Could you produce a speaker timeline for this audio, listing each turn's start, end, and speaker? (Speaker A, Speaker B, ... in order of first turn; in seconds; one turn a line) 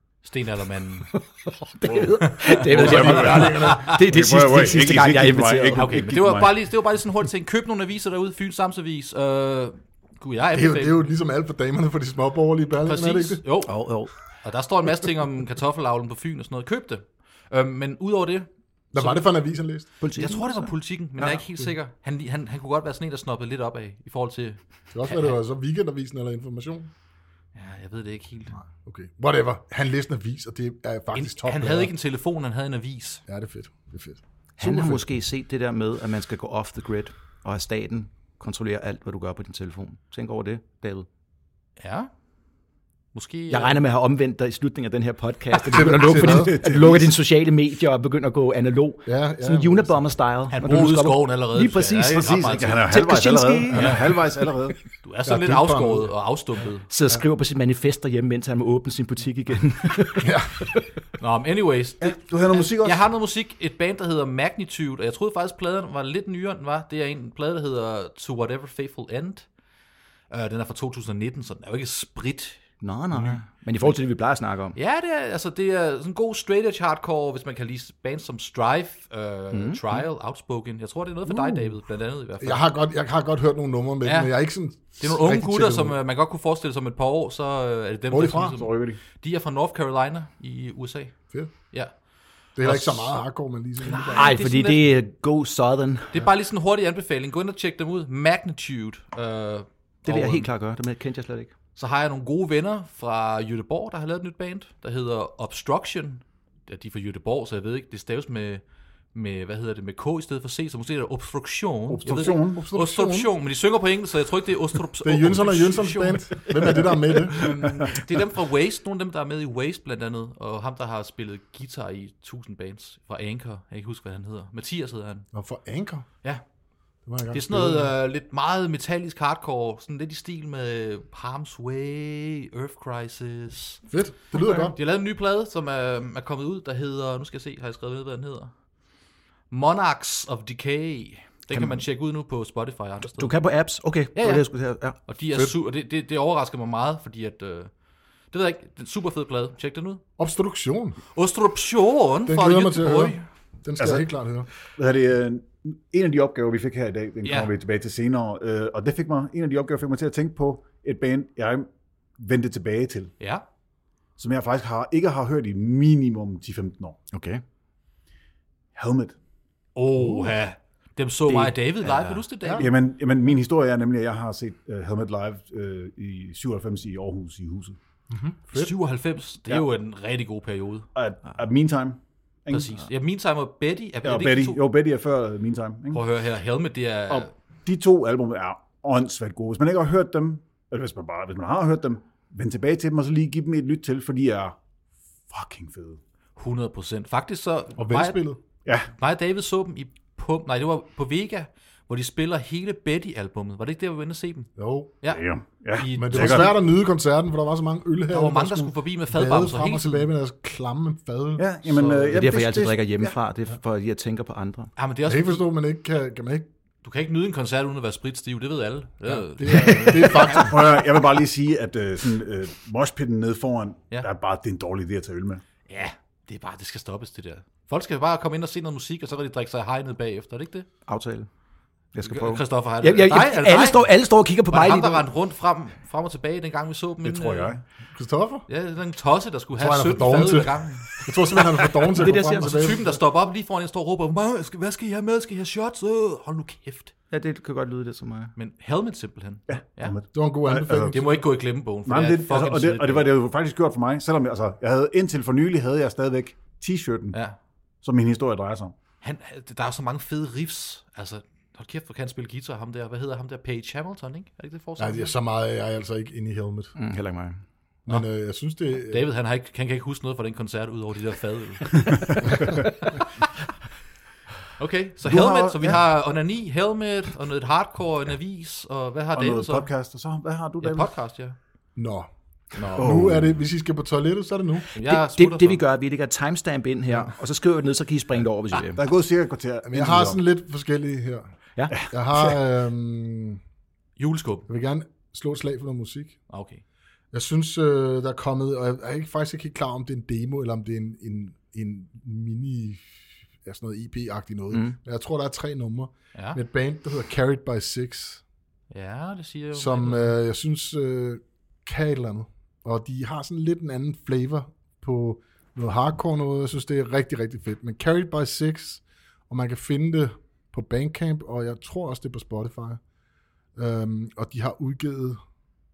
Speaker A: 0.2-1.2
Speaker B: 1.1-6.1
Speaker C: 1.9-6.5
Speaker A: 2.4-3.9
Speaker A: 5.8-11.0
Speaker D: 10.5-13.4
Speaker A: 12.8-19.2
Speaker B: 13.6-14.1
Speaker D: 18.9-19.9
Speaker B: 20.0-20.7
Speaker A: 20.1-25.4
Speaker D: 21.2-21.7
Speaker D: 24.9-26.9
Speaker A: 27.6-28.5
Speaker D: 28.6-31.9
Speaker A: 31.1-33.2
Speaker D: 33.3-35.0
Speaker B: 34.6-41.1
Speaker A: 41.8-42.1
Speaker A: 43.1-43.8
Speaker B: 43.5-54.0
Speaker D: 45.7-46.6
Speaker C: 46.1-47.1
Speaker D: 49.1-50.0
Speaker A: 50.5-52.9
Speaker C: 52.1-54.8
Speaker A: 53.7-54.1
Speaker A: 55.0-56.9
Speaker D: 55.2-56.1
Speaker B: 56.9-60.9
Speaker D: 60.2-60.7
Speaker A: 61.2-69.5
Speaker C: 62.0-63.0
Speaker A: 70.3-72.6
Speaker B: 72.8-74.8
Speaker A: 74.8-82.6
Speaker B: 79.5-80.0
Speaker D: 82.4-86.0
Speaker A: 84.0-91.9
Speaker D: 88.1-88.6
Speaker C: 88.5-89.0
Speaker D: 92.6-94.4
Speaker A: 92.6-93.2
Speaker A: 93.8-94.8
Speaker B: 94.1-96.1
Speaker A: 96.1-100.5
Speaker B: 100.1-101.5
Speaker A: 101.8-108.6
Speaker A: 109.1-125.3
Speaker C: 111.9-112.6
Speaker D: 112.1-113.3
Speaker D: 115.0-117.5
Speaker D: 125.3-126.1
Speaker D: 127.1-127.9
Speaker A: 127.3-133.8
Speaker D: 133.9-134.8
Speaker A: 134.3-138.5
Speaker A: 139.5-143.3
Speaker B: 141.5-141.8
Speaker B: 143.1-145.0
Speaker A: 144.2-144.4
Speaker A: 145.0-147.7
Speaker A: 148.3-150.0
Speaker D: 150.2-151.0
Speaker A: 151.2-153.2
Speaker D: 152.3-154.5
Speaker C: 153.8-154.1
Speaker C: 154.7-163.1
Speaker A: 157.2-157.5
Speaker C: 164.2-167.0
Speaker B: 167.1-167.4
Speaker C: 168.8-169.2
Speaker A: 169.8-172.7
Speaker D: 170.0-170.3
Speaker C: 172.1-177.8
Speaker D: 172.4-172.7
Speaker D: 178.1-178.7
Speaker A: 178.5-180.9
Speaker C: 180.9-182.8
Speaker A: 182.5-184.6
Speaker C: 184.0-186.0
Speaker A: 185.9-187.3
Speaker C: 187.1-194.6
Speaker C: 195.3-196.0
Speaker A: 196.4-198.2
Speaker D: 197.8-198.4
Speaker A: 199.0-204.5
Speaker D: 204.6-204.9
Speaker A: 205.0-206.5
Speaker C: 205.1-206.5
Speaker D: 206.0-211.5
Speaker A: 208.1-210.1
Speaker C: 211.4-213.1
Speaker A: 211.7-212.3
Speaker B: 212.1-214.7
Speaker A: 214.8-215.4
Speaker D: 215.1-216.5
Speaker A: 216.8-220.5
Speaker D: 219.1-220.7
Speaker C: 220.3-225.4
Speaker A: 225.7-230.7
Speaker B: 230.9-231.3
Speaker B: 231.9-235.1
Speaker A: 232.0-233.9
Speaker A: 234.5-237.5
Speaker C: 237.0-237.6
Speaker D: 237.9-238.4
Speaker A: 238.5-241.1
Speaker D: 239.6-243.0
Speaker B: 242.0-242.8
Speaker A: 242.3-246.9
Speaker B: 247.1-248.3
Speaker A: 248.4-250.0
Speaker C: 249.5-251.0
Speaker D: 250.1-251.2
Speaker A: 250.9-253.1
Speaker C: 251.9-257.2
Speaker C: 257.8-258.8
Speaker A: 259.0-265.1
Speaker D: 264.8-266.8
Speaker B: 266.8-267.4
Speaker D: 267.9-269.1
Speaker A: 268.9-272.6
Speaker A: 274.6-279.7
Speaker C: 275.1-275.8
Speaker C: 279.1-280.9
Speaker A: 280.6-281.4
Speaker D: 281.8-282.1
Speaker A: 282.6-282.9
Speaker D: 282.6-284.7
Speaker C: 282.8-283.4
Speaker A: 284.8-285.6
Speaker B: 284.8-288.8
Speaker C: 288.8-290.2
Speaker D: 289.6-293.4
Speaker A: 294.0-294.5
Speaker D: 294.5-296.2
Speaker A: 296.3-296.6
Speaker D: 297.1-302.9
Speaker D: 303.4-308.2
Speaker B: 304.5-304.8
Speaker A: 308.7-310.1
Speaker D: 309.5-322.8
Speaker D: 323.6-325.2